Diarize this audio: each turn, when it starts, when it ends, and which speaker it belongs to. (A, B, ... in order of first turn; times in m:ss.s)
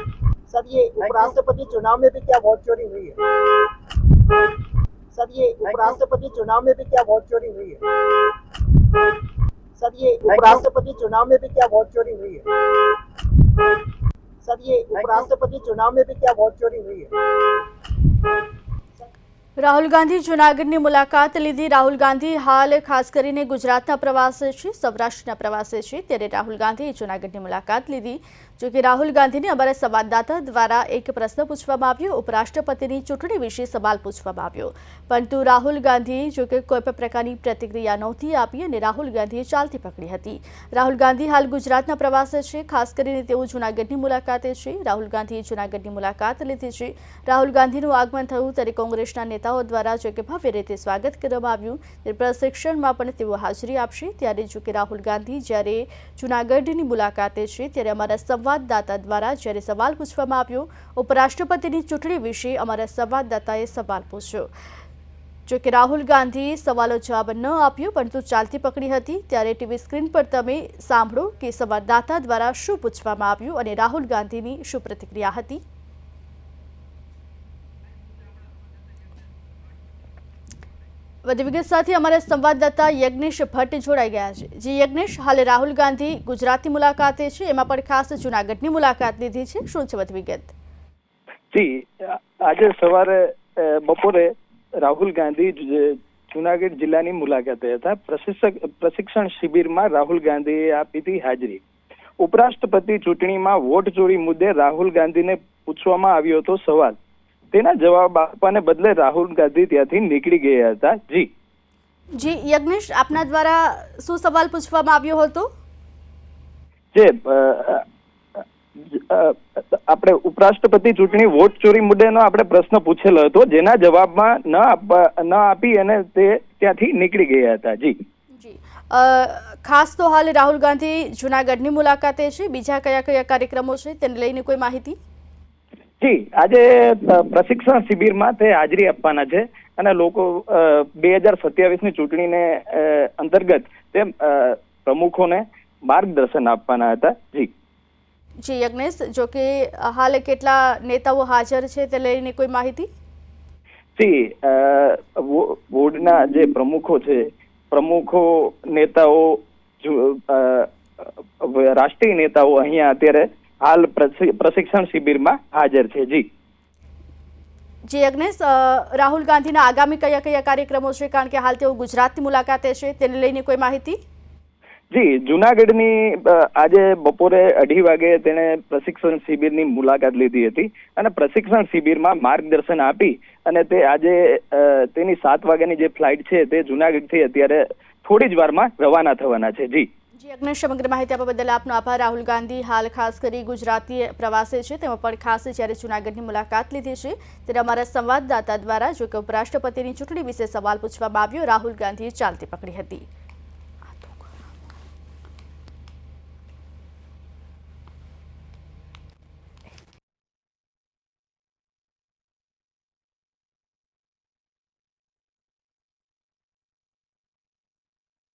0:00.9-0:02.8 A
0:05.4-0:07.2 A
0:10.2-0:12.3 A
0:14.6-0:16.7 A
0:19.6-1:04.5 B
1:05.5-1:15.6 B
1:21.2-1:30.5 B
1:31.5-1:41.6 C
1:42.2-1:47.0 C
1:47.5-1:51.3 C
1:52.1-1:55.5 B
1:56.9-1:57.8 C
1:58.4-2:08.0 C
2:08.3-2:15.0 B
2:16.0-2:27.5 C
2:28.4-2:32.9 B
2:34.0-2:46.2 C
2:47.8-2:54.0 B
2:54.9-3:09.9 C
3:10.2-3:23.0 B
3:23.9-3:24.2 B